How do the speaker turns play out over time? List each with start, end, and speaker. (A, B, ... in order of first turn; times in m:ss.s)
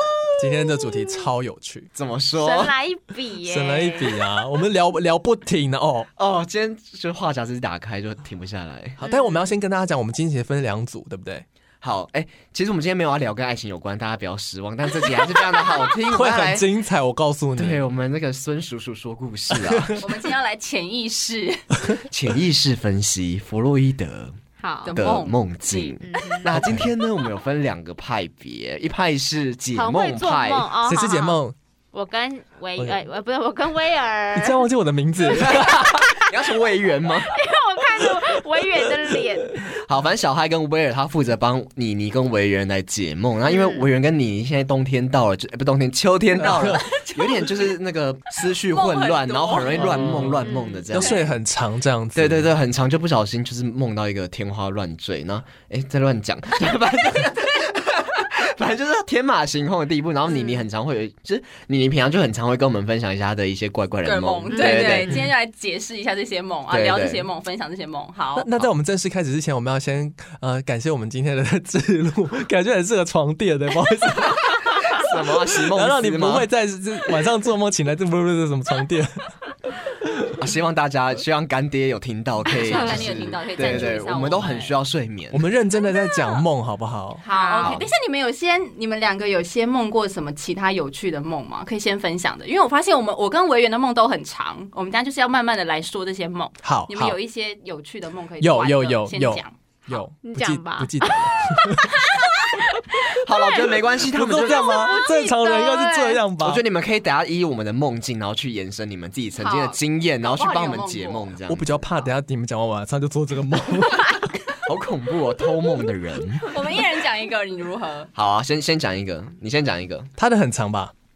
0:00.4-0:01.9 A
0:02.0-0:02.8 B
0:02.4-0:04.2 C
0:03.4-0:06.1 A
0:06.2-0:09.0 B
0:09.0-0:11.4 A
0:09.0-0:09.5 C
0:11.8-0:16.7 B
0:16.1-0:17.8 A
0:17.6-0:20.1 B
0:19.6-0:20.0 A
0:20.0-0:21.7 D
0:22.1-0:24.4 B
0:24.6-0:25.0 C
0:24.8-0:26.0 D
0:25.0-0:30.7 B
0:26.0-0:26.5 C
0:26.5-0:26.9 A
0:29.8-0:31.4 C
0:30.8-0:31.6 A
0:31.9-0:34.7 C
0:34.4-0:36.2 A
0:35.4-0:36.1 C
0:35.5-0:37.3 B
0:37.3-0:39.6 C
0:39.7-0:51.2 B
0:43.5-0:43.8 C
0:46.4-0:46.8 A
0:46.7-0:47.7 D
0:48.6-0:50.2 D
0:49.8-0:52.5 A
0:50.4-0:51.2 C
0:52.2-1:05.3 B
1:00.3-1:00.6 C
1:04.0-1:08.5 D
1:04.5-1:05.1 C
1:06.7-1:07.3 B
1:08.4-1:19.2 A
1:14.9-1:16.5 B
1:20.0-1:20.3 A
1:20.4-1:25.4 B
1:22.4-1:24.8 D
1:25.3-1:27.8 A
1:27.2-1:39.6 D
1:27.3-1:27.8 C
1:36.6-1:37.2 A
1:38.4-1:42.2 A
1:40.2-1:46.2 C
1:43.1-1:44.9 B
1:44.1-1:46.6 A
1:46.4-1:51.8 B
1:49.4-1:49.7 C
1:50.2-1:51.3 D
1:51.5-1:54.3 A
1:54.6-1:56.6 B
1:56.5-1:58.1 D
1:58.2-2:00.1 B
2:00.2-2:00.9 A